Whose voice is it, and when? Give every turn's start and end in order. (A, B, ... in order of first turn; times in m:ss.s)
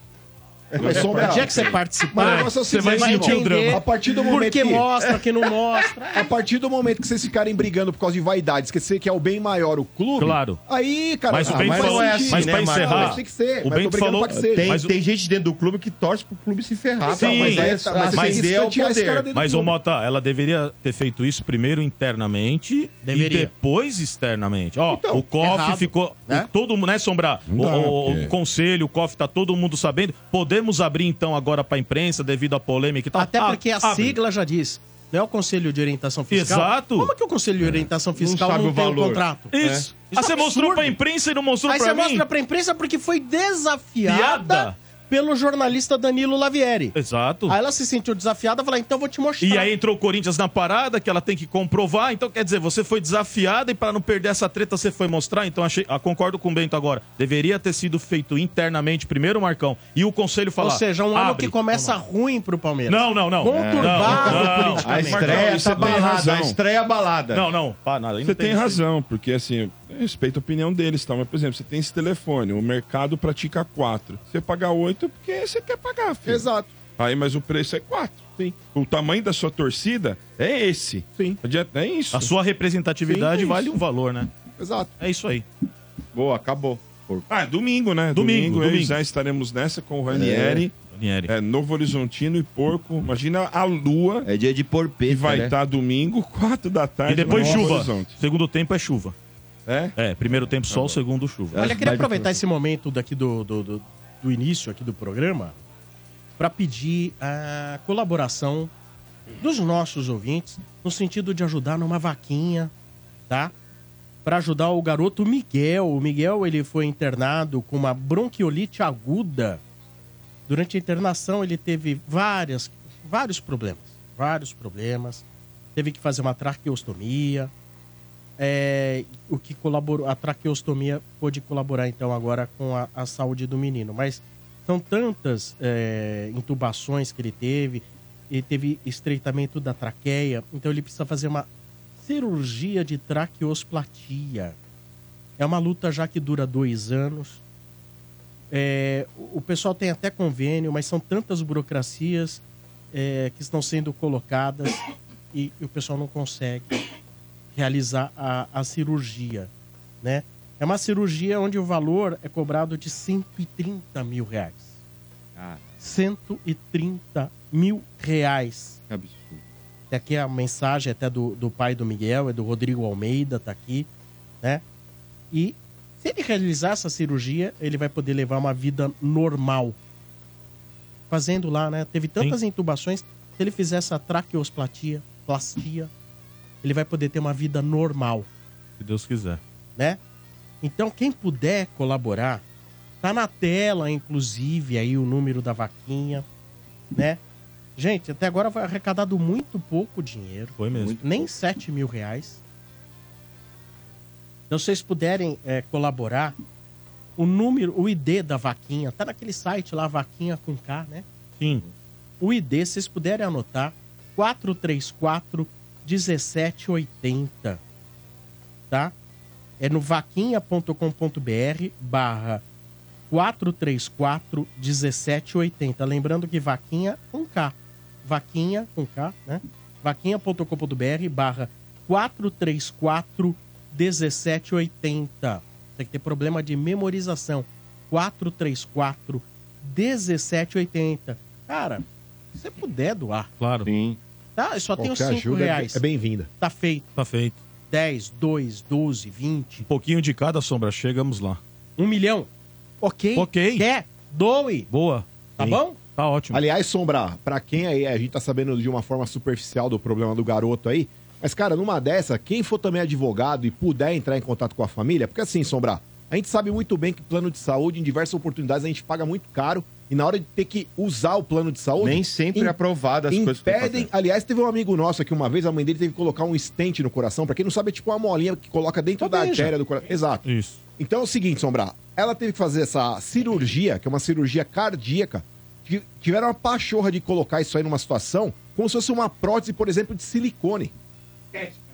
0:00.7-0:01.8 A
0:00.8-0:04.9 B
0:00.8-0:06.3 C
0:02.2-0:02.5 D
0:03.0-0:03.8 D
0:05.0-0:05.2 A
0:06.1-0:14.7 B
0:10.2-0:10.6 D
0:11.3-0:14.9 D
0:11.3-0:13.2 A
0:14.3-0:19.3 A
0:17.1-0:17.5 C
0:17.1-0:19.7 B
0:17.1-0:18.4 D
0:18.1-0:18.3 C
0:19.3-0:34.2 D
0:23.0-0:23.5 C
0:24.9-0:26.5 C
0:27.5-0:28.3 E
0:33.2-0:41.0 C
0:36.3-0:37.1 D
0:38.2-0:39.9 A
0:39.5-0:42.2 D
0:41.7-0:47.0 C
0:44.0-0:44.8 D
0:47.0-0:47.6 D
0:47.5-0:49.7 C
0:49.4-1:02.0 D
1:00.6-1:05.9 C
1:02.9-1:05.4 D
1:03.5-1:07.5 A
1:05.0-1:06.6 E
1:07.3-1:08.8 D
1:08.2-1:16.5 E
1:16.2-1:16.7 B
1:17.0-1:22.3 E
1:21.2-1:21.4 B
1:22.1-1:24.3 D
1:23.0-1:23.8 B
1:24.6-1:24.9 B
1:25.0-1:25.5 D
1:26.1-1:27.3 A
1:27.3-1:30.8 E
1:28.1-1:29.0 D
1:30.1-1:30.7 A
1:30.8-1:31.3 D
1:31.3-1:34.3 E
1:34.2-1:35.6 A
1:35.0-1:38.2 E
1:37.1-1:39.2 D
1:37.3-1:37.8 A
1:39.7-1:40.0 A
1:40.0-1:41.6 D
1:40.7-1:41.0 E
1:41.5-1:42.3 A
1:41.6-1:45.6 C
1:46.4-1:48.7 C
1:49.4-1:52.7 C
1:54.2-1:59.6 C
2:00.5-2:05.2 C
2:05.8-2:07.5 C
2:08.4-2:21.5 C
2:22.0-2:24.6 C
2:25.4-2:27.4 C
2:28.5-2:34.8 C
2:35.3-2:36.8 C
2:37.5-2:39.5 C
2:40.0-2:44.7 C
2:45.4-2:45.7 A
2:45.8-2:48.8 C
2:48.9-2:49.4 A
2:49.9-2:53.9 C
2:55.3-2:59.8 C
3:01.1-3:05.9 C
3:06.6-3:08.3 C
3:08.8-3:09.4 D
3:10.6-3:12.4 C
3:13.0-3:16.3 C
3:16.9-3:17.2 C
3:17.8-3:22.4 C
3:20.6-3:21.0 D
3:20.7-3:21.3 A
3:24.5-3:26.4 C
3:27.2-3:31.1 C
3:32.2-3:37.6 C
3:39.6-3:42.4 C
3:43.1-4:03.3 C
4:03.4-4:03.7 D
4:03.6-4:04.0 A
4:04.4-4:05.8 C
4:04.8-4:06.3 B
4:06.4-4:07.0 C
4:07.0-4:07.4 D
4:07.7-4:09.7 C
4:09.7-4:11.4 D
4:11.8-4:12.3 C
4:12.8-4:14.7 C
4:13.2-4:13.7 D
4:14.7-4:16.4 D
4:15.4-4:15.8 C
4:16.3-4:32.6 B
4:31.8-4:33.9 A
4:33.1-4:40.2 B
4:39.0-4:39.5 C
4:40.2-4:40.6 D
4:40.8-4:50.7 B